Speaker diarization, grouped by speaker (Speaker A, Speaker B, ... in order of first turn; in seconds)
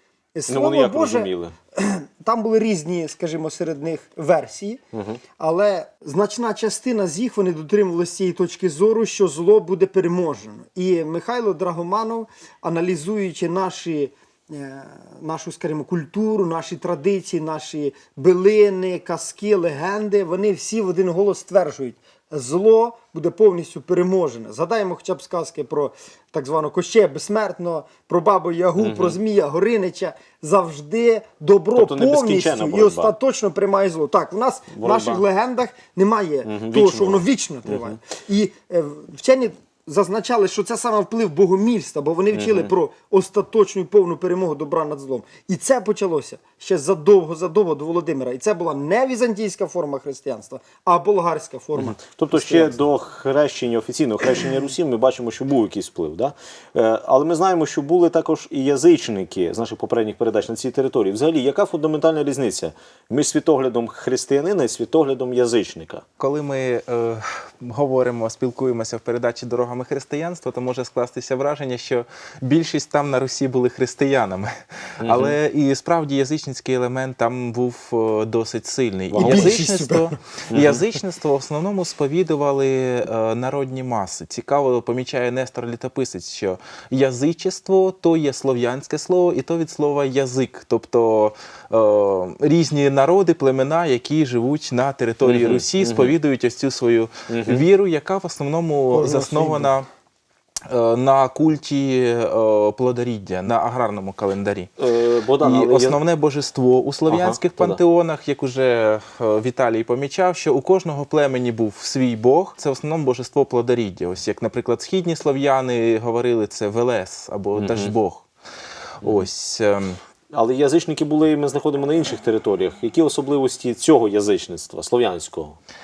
Speaker A: 0.3-4.8, 5.4-52.8, 79.2-80.1, 98.9-99.7
Speaker B: 0.5-1.5, 4.9-5.2, 28.8-29.2, 31.7-33.1, 34.8-35.2, 36.4-38.0, 42.3-42.7, 51.8-66.0, 75.0-75.3, 79.1-79.6, 80.5-80.8, 95.2-96.1, 97.3-97.6, 104.8-106.0, 107.1-107.8, 117.5-117.9, 120.3-125.6
Speaker C: 66.2-74.5, 75.0-99.9, 100.7-104.7, 105.4-118.3, 119.0-120.0